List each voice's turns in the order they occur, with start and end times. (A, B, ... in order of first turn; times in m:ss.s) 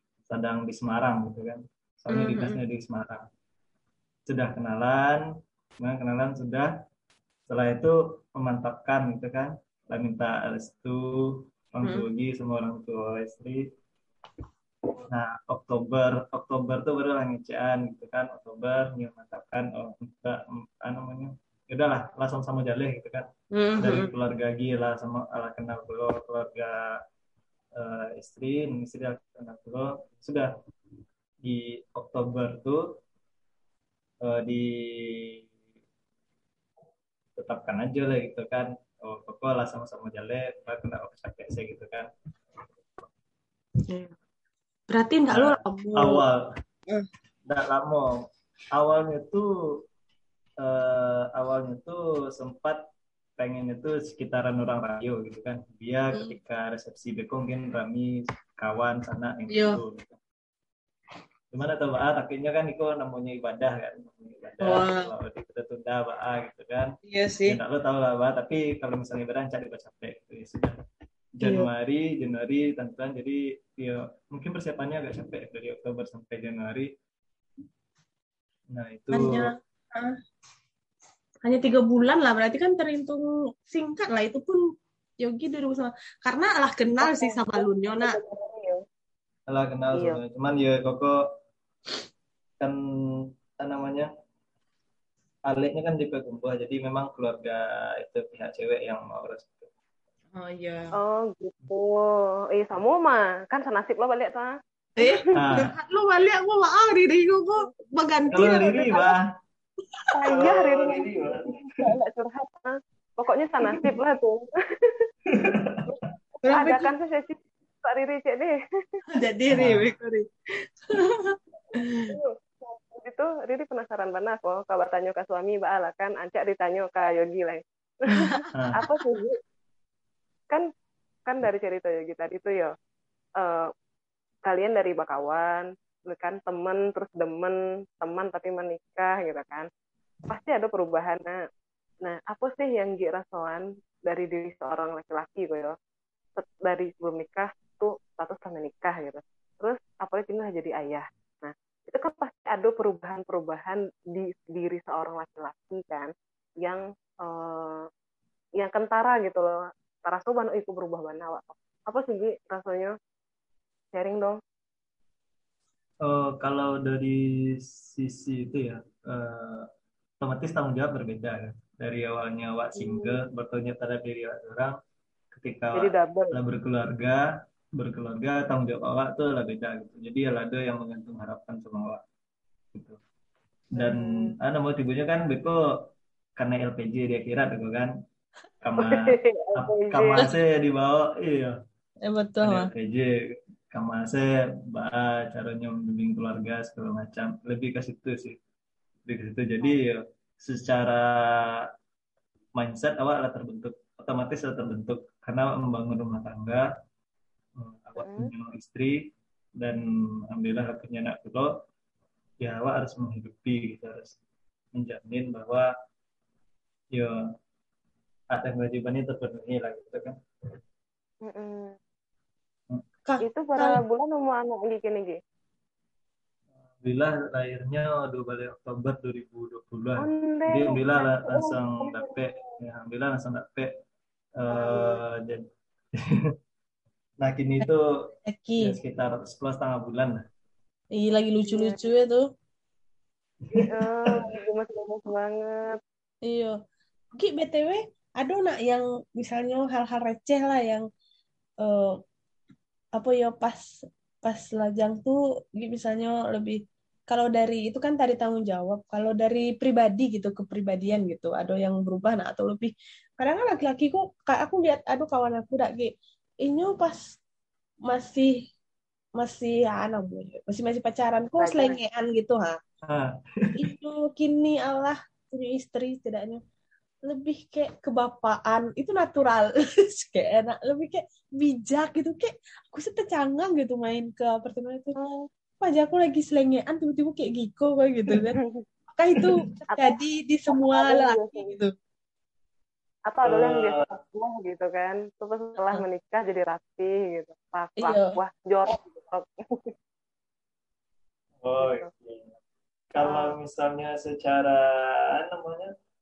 0:00.3-0:03.2 A
0:02.1-0:02.6 B
0:04.3-0:05.2 A
0:05.8-0:06.7 A
0:07.5-0:13.6 A
0:11.8-0:12.1 B
0:15.1-0:26.9 A
0:23.5-0:24.1 B
0:27.8-0:30.5 A
0:31.4-0:33.0 A
0:34.2-0:35.4 A
0:37.4-0:42.1 A
0:43.9-0:44.1 B
0:44.9-0:46.2 B
0:45.3-0:46.5 A
0:47.5-0:49.9 A
0:50.6-0:52.8 A
0:53.4-1:00.2 A
0:59.5-0:59.8 B
1:01.5-1:06.9 A
1:04.6-1:05.1 B
1:07.0-1:07.6 B
1:07.5-1:10.8 A
1:11.4-1:16.9 A
1:11.4-1:11.7 B
1:18.7-1:19.5 A
1:19.1-1:20.2 B
1:21.4-1:24.6 B
1:25.2-1:28.2 B
1:27.0-1:28.8 C
1:29.5-1:31.2 A
1:29.9-1:30.2 C
1:32.6-1:34.1 A
1:35.5-1:39.7 A
1:40.3-1:41.0 B
1:41.0-1:45.6 C
1:45.0-1:49.1 B
1:45.4-1:45.7 A
1:48.3-1:49.2 A
1:50.1-1:55.1 C
1:50.2-1:51.8 A
1:55.3-1:55.8 A
1:55.9-1:59.0 C
1:56.4-1:56.9 B
1:59.1-2:00.3 B
1:59.5-1:59.8 A
2:00.9-2:02.1 B
2:02.0-2:09.4 C
2:08.1-2:09.0 B
2:11.3-2:12.7 C
2:13.4-2:13.7 C
2:14.5-2:19.7 C
2:20.3-2:21.4 C
2:22.0-2:25.7 C
2:26.4-2:37.9 C
2:38.6-2:43.0 C
2:43.9-2:44.4 C
2:46.0-2:49.7 A
2:50.2-2:54.8 A
2:52.8-2:53.2 C
2:55.3-3:02.0 A
2:55.8-2:56.4 C
3:02.7-3:03.0 A
3:03.7-3:07.9 A
3:03.8-3:04.4 C
3:08.6-3:11.6 A
3:08.8-3:10.3 C
3:12.1-3:12.7 B
3:12.4-3:13.1 A
3:13.7-3:18.4 A
3:19.1-3:21.7 A
3:22.6-3:26.7 A
3:27.6-3:31.5 A
3:28.0-3:28.3 C
3:32.4-3:34.2 A
3:34.7-3:35.7 A
3:38.3-3:40.2 A
3:41.2-3:41.8 C
3:43.1-3:43.8 B
3:43.2-3:45.2 C
3:46.8-3:53.7 A
3:50.0-3:52.4 C
3:54.4-3:55.4 A
3:54.5-3:55.0 C
3:57.2-3:57.9 A
3:58.3-3:58.8 B
3:58.6-4:00.2 A
4:01.0-4:02.2 B
4:01.5-4:01.9 C
4:03.5-4:04.4 A
4:03.5-4:05.8 C
4:06.2-4:06.6 B
4:07.2-4:10.9 B
4:11.6-4:12.0 B
4:13.0-4:13.7 B
4:14.2-4:27.2 B
4:27.9-4:28.4 B
4:29.2-4:32.6 B
4:31.4-4:31.8 C
4:32.8-4:33.6 A
4:33.6-4:36.4 B
4:37.1-4:45.0 B
4:45.0-4:45.3 C
4:45.6-4:48.4 B
4:48.3-4:48.6 C
4:49.0-4:51.7 B
4:49.7-4:50.0 C
4:50.5-4:51.5 C
4:53.1-4:59.7 C
4:53.2-4:53.8 A
4:57.8-4:58.2 B
5:01.4-5:02.3 A
5:01.6-5:01.9 C
5:02.9-5:05.7 A
5:03.0-5:03.4 C